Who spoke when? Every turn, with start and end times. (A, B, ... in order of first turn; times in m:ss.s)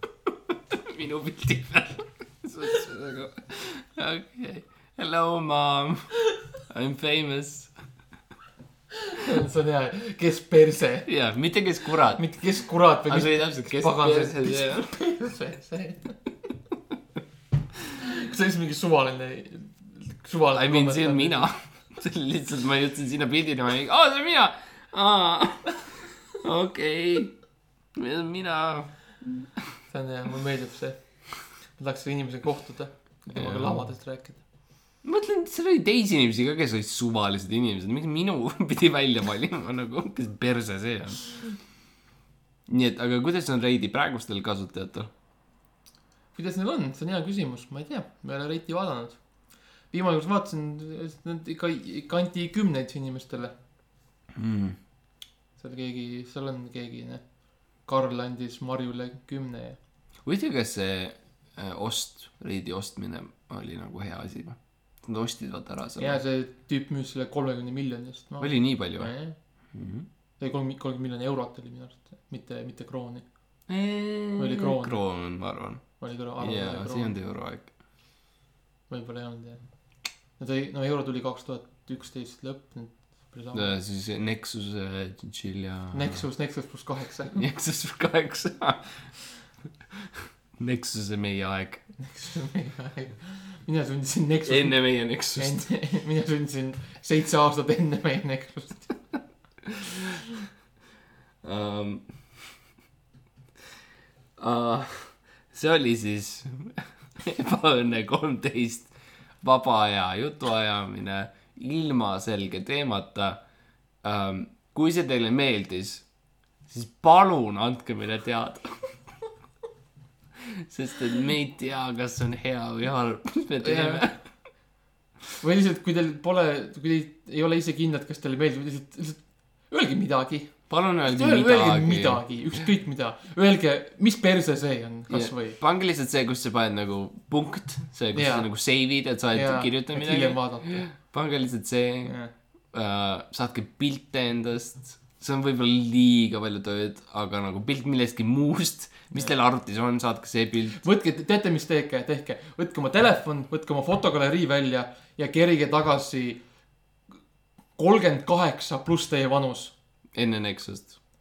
0:00.3-0:06.1 A
0:06.7-0:07.7 A
0:09.0-0:11.1 B
0:11.1-0:12.2 A
0:12.2-0:16.2 B
0:13.1-0:14.9 A
0:18.0-0:21.5 B
0:20.5-0:27.3 A
0:27.9-0:29.5 A
0:29.9-0:31.0 B
0:31.8-0:34.4 B
0:33.3-0:33.8 A
0:35.0-0:41.4 A
0:42.7-0:45.1 A
0:46.3-0:49.2 B
0:49.9-0:53.5 B
0:54.3-0:54.8 A
0:55.6-0:57.2 B
0:57.8-0:59.8 B
1:00.2-1:06.2 A
1:06.0-1:09.4 B
1:08.4-1:09.1 A
1:09.7-1:10.0 A
1:10.4-1:13.2 B
1:13.7-1:15.8 A
1:14.4-1:15.0 B
1:16.0-1:17.2 B
1:16.4-1:17.7 A
1:18.9-1:19.6 B
1:20.4-1:23.7 B
1:23.5-1:26.2 A
1:25.9-1:27.4 B
1:27.3-1:28.9 A
1:30.0-1:31.8 A
1:32.0-1:34.8 B
1:34.4-1:35.6 A
1:35.3-1:39.0 B
1:39.7-1:39.9 A
1:41.4-1:42.1 A
1:44.4-1:48.9 A
1:49.4-1:53.4 A
1:54.0-1:56.0 A
1:56.7-1:58.6 A
2:00.4-2:04.2 A
2:03.6-2:04.1 B
2:05.4-2:10.5 B
2:10.7-2:12.2 A
2:11.1-2:15.6 B
2:15.1-2:22.1 A
2:18.1-2:18.5 B
2:19.3-2:20.9 B
2:22.0-2:22.3 B
2:22.7-2:30.8 A
2:30.8-2:36.4 B
2:37.8-2:39.7 B
2:40.1-2:41.0 A